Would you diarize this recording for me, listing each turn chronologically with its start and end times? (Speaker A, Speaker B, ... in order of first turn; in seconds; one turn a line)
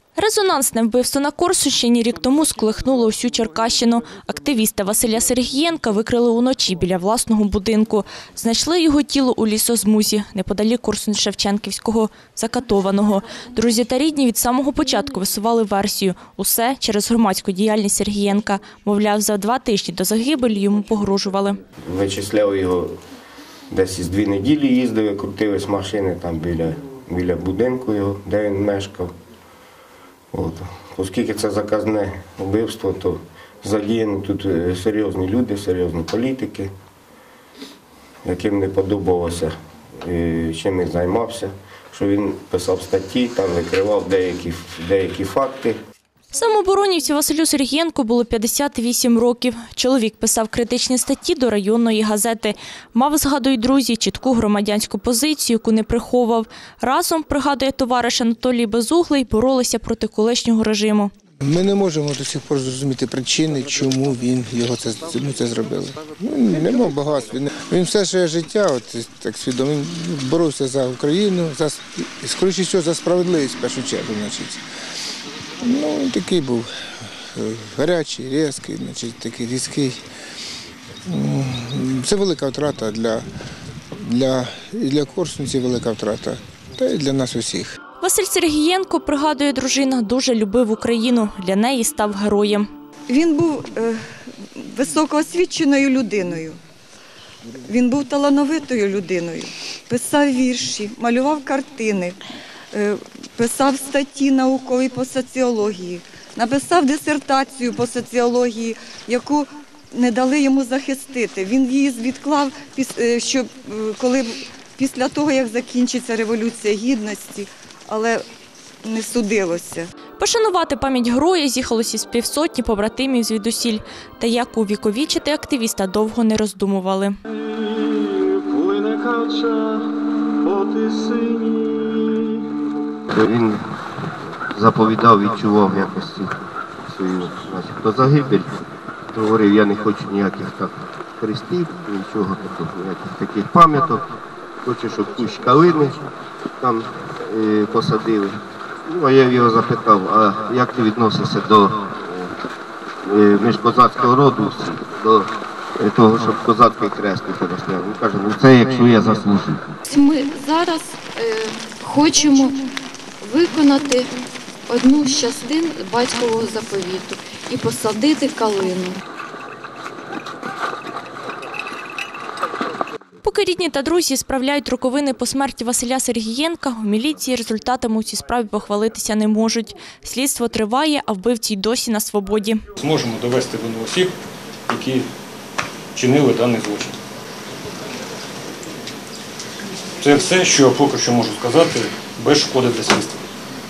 Speaker A: 0.2-21.6
Speaker B: 21.8-22.9
Speaker B: 23.7-29.1
Speaker B: 30.3-36.7
Speaker B: 38.2-45.8
Speaker A: 46.3-61.1
Speaker C: 61.4-74.6
Speaker C: 75.6-80.0
Speaker C: 81.0-83.3
Speaker C: 84.0-87.8
Speaker A: 88.0-92.7
Speaker D: 93.1-96.6
Speaker D: 97.6-102.2
Speaker D: 102.7-118.2
Speaker D: 118.8-119.9
Speaker A: 120.2-127.1
Speaker E: 127.6-129.9
Speaker E: 130.4-132.0
Speaker B: 133.1-133.6
Speaker B: 134.5-144.1
Speaker B: 144.6-146.0
Speaker B: 146.6-152.3
Speaker B: 153.0-159.7
Speaker F: 159.9-162.7
Speaker F: 163.2-164.1
Speaker F: 164.7-169.0
Speaker A: 173.2-182.6
Speaker G: 182.8-184.1
Speaker G: 184.7-185.1
Speaker G: 185.9-187.0
Speaker G: 190.0-193.3